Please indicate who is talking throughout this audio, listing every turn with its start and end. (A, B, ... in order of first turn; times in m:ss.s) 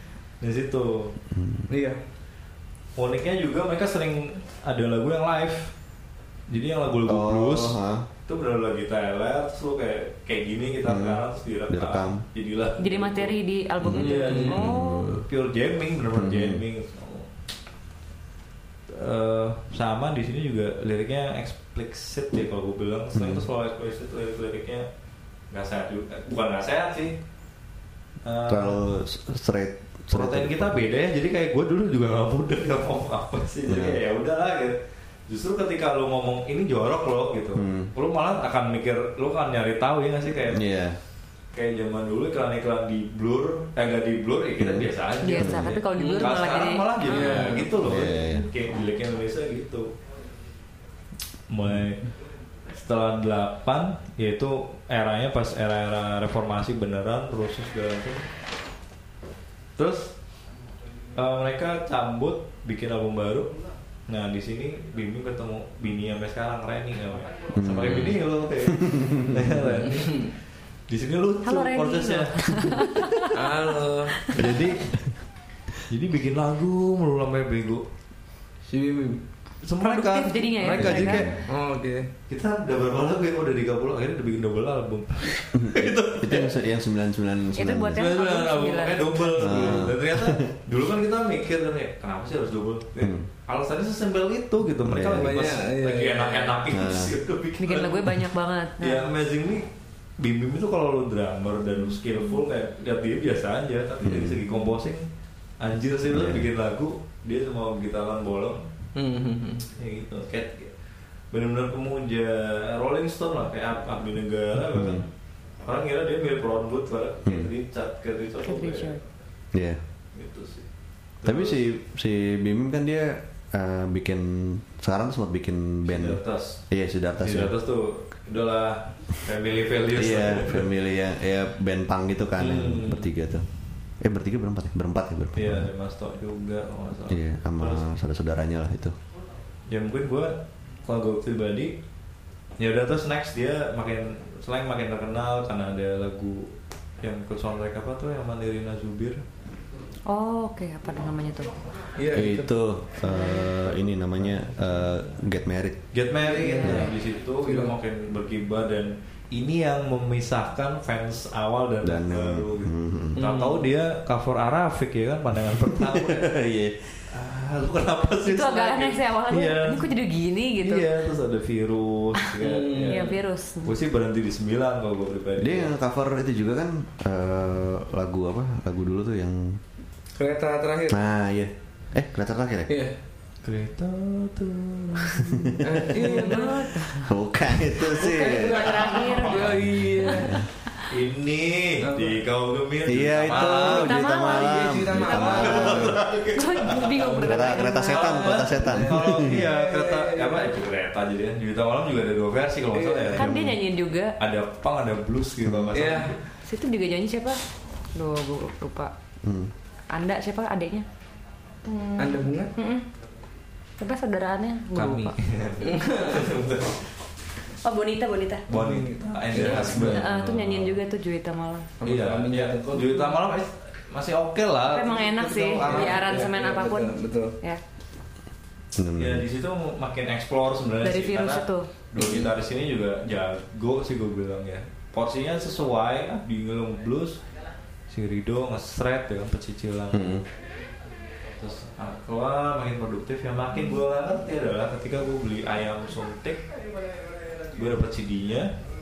0:00.4-0:01.2 A
0:01.3-0:01.7 B
0:01.7-0:02.0 C
0:03.0-0:05.7 A
0:06.5-0:13.4 A
0:07.1-0:08.1 B
0:10.8-0:12.2 B
0:12.8-0:15.2 D
0:13.8-0:15.2 B
0:13.9-0:17.3 A
0:14.0-0:14.6 C
0:16.2-0:16.6 B
0:18.9-0:24.9 A
0:23.1-0:23.4 B
0:25.5-0:27.2 A
0:28.2-0:28.8 A
0:28.5-0:30.8 B
0:30.1-0:40.7 A
0:33.7-0:34.0 B
0:37.6-0:37.9 B
0:40.5-0:41.0 B
0:41.5-0:49.9 A
0:44.6-0:45.8 B
0:45.2-0:47.6 D
0:46.0-0:46.3 C
0:47.0-0:47.7 C
0:47.8-0:48.5 B
0:51.5-0:52.1 A
0:52.7-0:58.3 A
0:59.8-1:00.1 A
1:01.2-1:03.5 A
1:04.1-1:13.4 A
1:07.6-1:08.2 B
1:08.8-1:09.6 B
1:09.9-1:10.3 C
1:11.4-1:13.5 D
1:13.3-1:14.4 C
1:14.3-1:15.1 A
1:15.9-1:17.8 A
1:18.7-1:19.2 C
1:19.6-1:21.4 A
1:19.8-1:21.4 D
1:20.8-1:21.4 B
1:21.4-1:22.1 C
1:22.3-1:26.6 A
1:25.6-1:28.2 B
1:27.6-1:29.6 D
1:28.0-1:38.3 A
1:29.4-1:30.5 B
1:33.0-1:33.3 B
1:34.8-1:35.5 B
1:35.0-1:36.6 C
1:36.7-1:37.2 B
1:37.6-1:39.1 D
1:38.8-1:39.7 A
1:40.2-1:45.1 A
1:44.0-1:44.4 B
1:45.6-1:48.7 A
1:46.1-1:46.5 B
1:49.0-1:49.7 C
1:49.7-1:50.7 A
1:51.3-1:55.1 A
1:54.7-1:55.0 B
1:55.6-1:59.0 A
1:58.5-1:59.0 D
1:59.5-1:59.8 B
2:00.1-2:00.7 A
2:01.2-2:01.6 A
2:01.2-2:07.5 B
2:05.8-2:06.6 A
2:07.2-2:10.7 A
2:10.0-2:13.5 B
2:12.4-2:13.1 A
2:14.0-2:15.7 B
2:15.4-2:17.9 A
2:17.1-2:19.0 B
2:19.7-2:21.7 A
2:22.6-2:29.2 A
2:30.1-2:31.6 D
2:32.0-2:32.6 C
2:32.1-2:35.8 B
2:33.0-2:33.6 D
2:35.9-2:46.3 A
2:36.2-2:36.9 C
2:36.6-2:36.9 B
2:37.4-2:37.7 C
2:41.8-2:43.2 B
2:43.2-2:43.6 C
2:45.6-2:47.0 B
2:47.1-2:49.9 A
2:48.2-2:51.0 D
2:50.6-2:55.7 A
2:52.4-2:53.2 C
2:52.8-2:53.7 D
2:55.4-2:59.6 B
3:00.2-3:01.0 C
3:00.9-3:02.8 B
3:02.7-3:03.0 C
3:03.4-3:06.6 A
3:05.2-3:05.9 B
3:05.6-3:06.9 C
3:05.9-3:07.1 D
3:07.0-3:10.5 B
3:07.8-3:10.4 D
3:08.0-3:10.4 C
3:08.9-3:09.5 A
3:10.8-3:14.0 A
3:11.8-3:12.2 C
3:12.9-3:16.0 B
3:13.4-3:18.4 D
3:13.5-3:16.0 C
3:15.4-3:17.2 A
3:16.9-3:17.6 C
3:17.2-3:19.5 B
3:17.8-3:23.3 A
3:18.3-3:20.5 C
3:22.7-3:23.3 C
3:23.2-3:24.2 D
3:23.2-3:23.6 B
3:24.2-3:26.2 A
3:25.4-3:25.8 B
3:25.7-3:26.2 C
3:26.4-3:27.4 D
3:27.9-3:28.9 D
3:29.2-3:29.5 B
3:29.9-3:30.9 D
3:31.6-3:32.9 D
3:32.0-3:32.5 C
3:33.8-3:35.2 D
3:34.7-3:36.9 A
3:35.6-3:36.3 C
3:37.6-3:38.5 D
3:38.5-3:40.8 A
3:38.5-3:40.0 C
3:39.4-3:41.7 D
3:41.8-3:43.2 C
3:41.8-3:46.1 A
3:44.7-3:47.6 D
3:45.4-3:47.4 C
3:48.8-3:49.3 B
3:49.0-3:57.2 A
3:50.8-3:51.7 D
3:57.9-4:00.2 A
3:59.9-4:00.2 B
4:01.3-4:06.4 A
4:07.5-4:08.5 A